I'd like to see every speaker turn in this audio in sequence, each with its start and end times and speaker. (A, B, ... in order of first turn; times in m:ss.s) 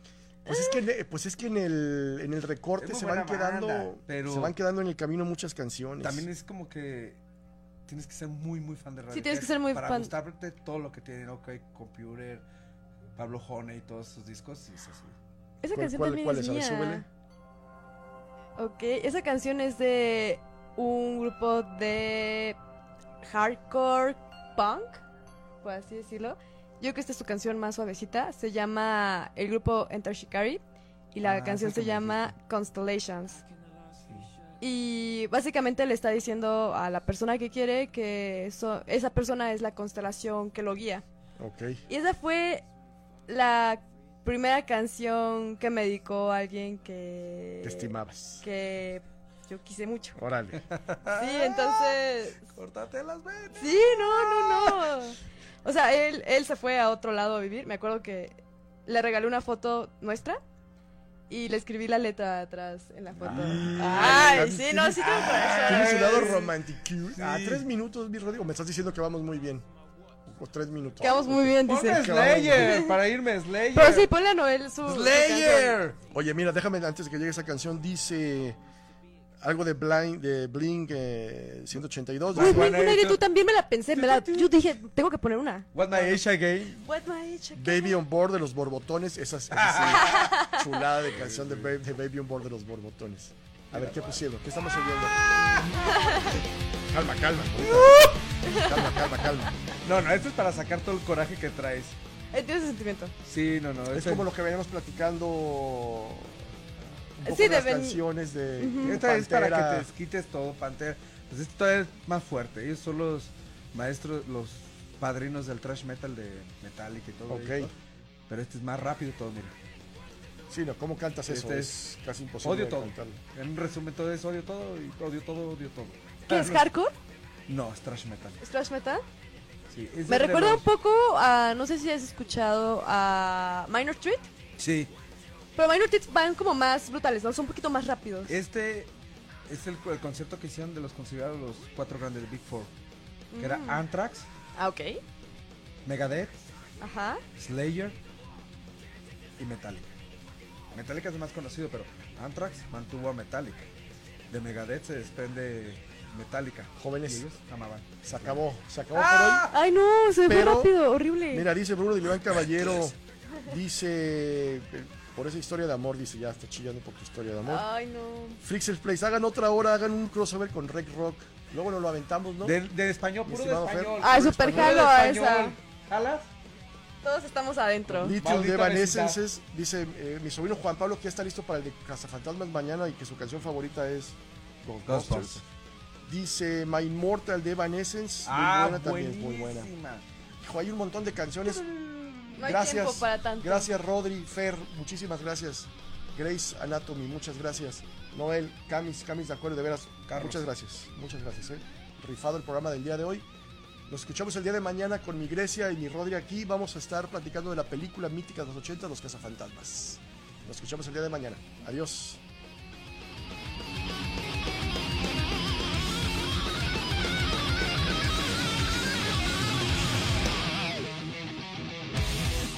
0:00.4-0:06.2 A
0:00.5-0:00.7 B
0:02.8-0:04.5 C
0:06.0-0:07.2 C
0:07.9-0:12.4 C
0:09.1-0:10.1 B
0:13.2-0:15.2 C
0:15.6-0:17.0 B
0:15.7-0:17.0 A
0:18.6-0:22.6 B
0:23.2-0:25.0 B
0:25.6-0:30.6 B
0:31.1-0:33.4 B
0:31.2-0:32.3 A
0:34.6-0:41.0 B
0:41.4-0:41.8 A
0:41.9-0:42.6 B
0:43.3-0:50.2 B
0:47.6-0:48.4 A
0:50.2-0:50.6 A
0:50.6-0:51.8 C
0:51.1-0:52.4 B
0:52.4-0:53.6 C
0:53.6-1:00.4 B
1:01.3-1:06.4 B
1:03.2-1:06.5 C
1:03.3-1:09.6 A
1:07.1-1:07.6 C
1:10.2-1:12.8 A
1:11.0-1:12.9 B
1:11.3-1:14.1 C
1:13.7-1:15.8 B
1:14.8-1:16.0 C
1:16.0-1:18.6 A
1:19.4-1:22.8 A
1:22.3-1:23.2 C
1:22.4-1:26.2 B
1:23.9-1:24.5 C
1:25.7-1:26.8 C
1:26.8-1:28.0 B
1:27.6-1:35.8 A
1:29.5-1:30.4 C
1:30.0-1:30.7 B
1:31.0-1:31.7 C
1:33.7-1:34.2 C
1:35.2-1:35.9 C
1:35.8-1:36.4 B
1:36.9-1:39.5 A
1:37.6-1:38.2 C
1:38.4-1:39.2 B
1:39.8-1:42.0 C
1:42.3-1:43.1 B
1:43.2-1:44.3 C
1:43.9-1:46.5 A
1:47.2-1:49.9 A
1:47.2-1:48.0 B
1:48.6-1:49.0 B
1:48.8-1:57.7 C
1:57.3-1:57.7 A
1:58.3-1:59.5 C
2:00.5-2:03.2 A
2:01.3-2:01.8 C
2:02.4-2:06.6 C
2:06.3-2:06.9 B
2:07.5-2:08.4 C
2:08.4-2:09.0 B
2:09.7-2:10.6 C
2:10.1-2:14.3 B
2:14.6-2:14.9 C
2:15.6-2:18.3 B
2:18.3-2:18.9 C
2:19.5-2:22.7 C
2:23.3-2:23.8 B
2:23.4-2:24.3 C
2:24.6-2:25.0 B
2:25.8-2:26.4 C
2:26.8-2:27.2 B
2:27.4-2:28.0 C
2:29.4-2:29.9 C
2:30.7-2:33.7 C
2:34.3-2:38.4 C
2:36.8-2:37.2 A
2:38.0-2:39.5 A
2:38.9-2:39.6 C
2:39.5-2:41.5 B
2:40.2-2:40.8 A
2:41.3-2:47.7 A
2:47.4-2:48.4 B
2:48.4-2:52.6 A
2:52.4-2:56.3 C
2:53.2-2:54.9 A
2:54.0-2:55.6 B
2:57.0-2:58.2 B
2:57.9-3:05.4 A
2:58.2-2:59.2 C
3:04.8-3:05.4 C
3:06.0-3:09.7 A
3:08.2-3:10.0 C
3:10.4-3:11.6 A
3:11.5-3:13.7 B
3:12.4-3:23.2 A
3:20.1-3:20.4 C
3:23.9-3:32.2 A